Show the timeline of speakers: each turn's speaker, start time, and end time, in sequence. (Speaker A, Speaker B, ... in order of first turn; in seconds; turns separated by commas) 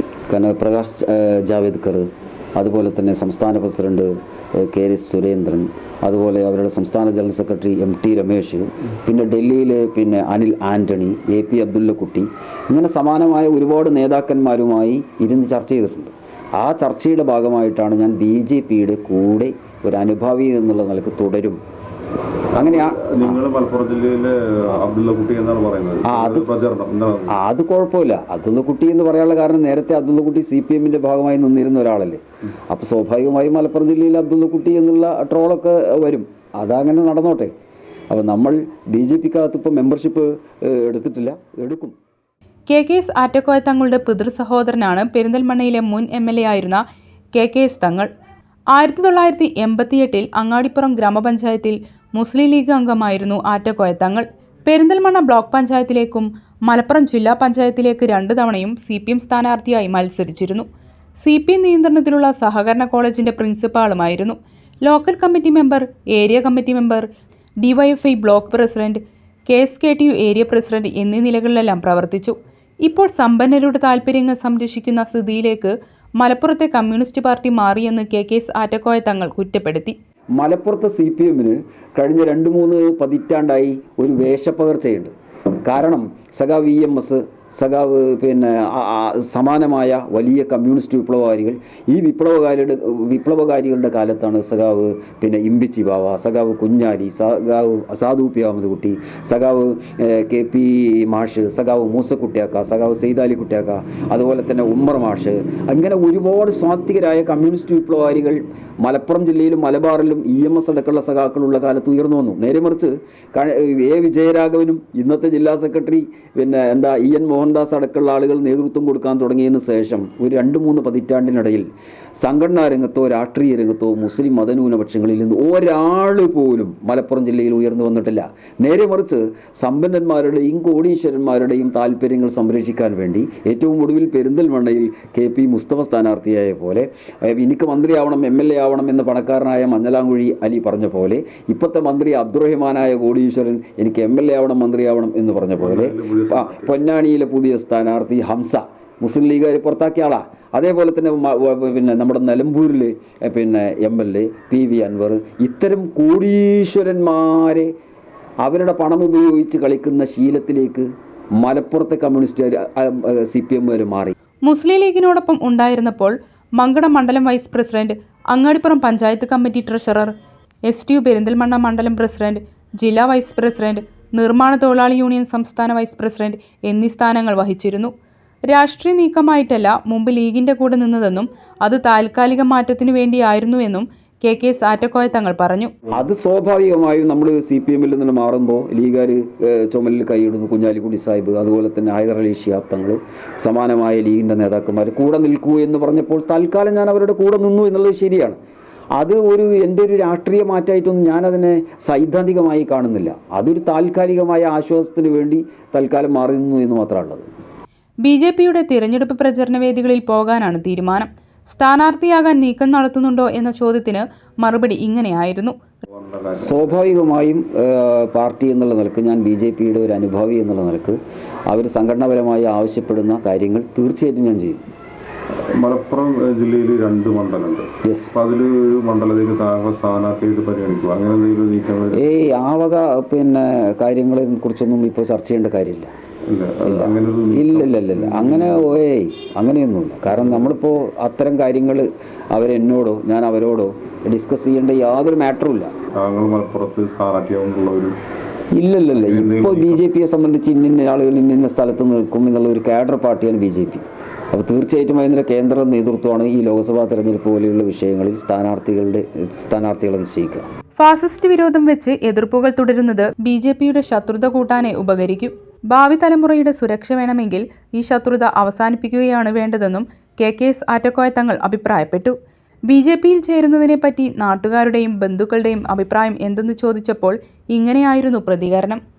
Speaker A: 0.3-21.6, Speaker A: 22.5-23.4, Speaker B: 22.5-27.4, Speaker A: 26.0-26.5, Speaker A: 27.3-37.5, Speaker A: 38.1-41.9, Speaker C: 42.7-46.8, Speaker C: 47.3-48.1, Speaker C: 48.7-60.7, Speaker C: 61.2-67.0, Speaker C: 67.6-80.0, Speaker A: 80.4-85.1, Speaker A: 85.7-157.7, Speaker B: 145.6-146.7, Speaker A: 158.4-164.1, Speaker C: 164.4-170.1, Speaker C: 170.7-177.9, Speaker C: 178.5-185.7, Speaker A: 185.9-198.4, Speaker A: 199.0-207.3, Speaker C: 208.0-215.6, Speaker B: 215.8-216.7, Speaker A: 216.3-224.6, Speaker B: 225.6-232.0, Speaker A: 227.8-228.1, Speaker A: 231.9-235.9, Speaker B: 236.3-238.6, Speaker A: 236.6-245.7, Speaker B: 245.9-247.9, Speaker A: 248.5-260.4, Speaker B: 249.0-249.8, Speaker C: 260.8-272.1, Speaker C: 272.7-278.8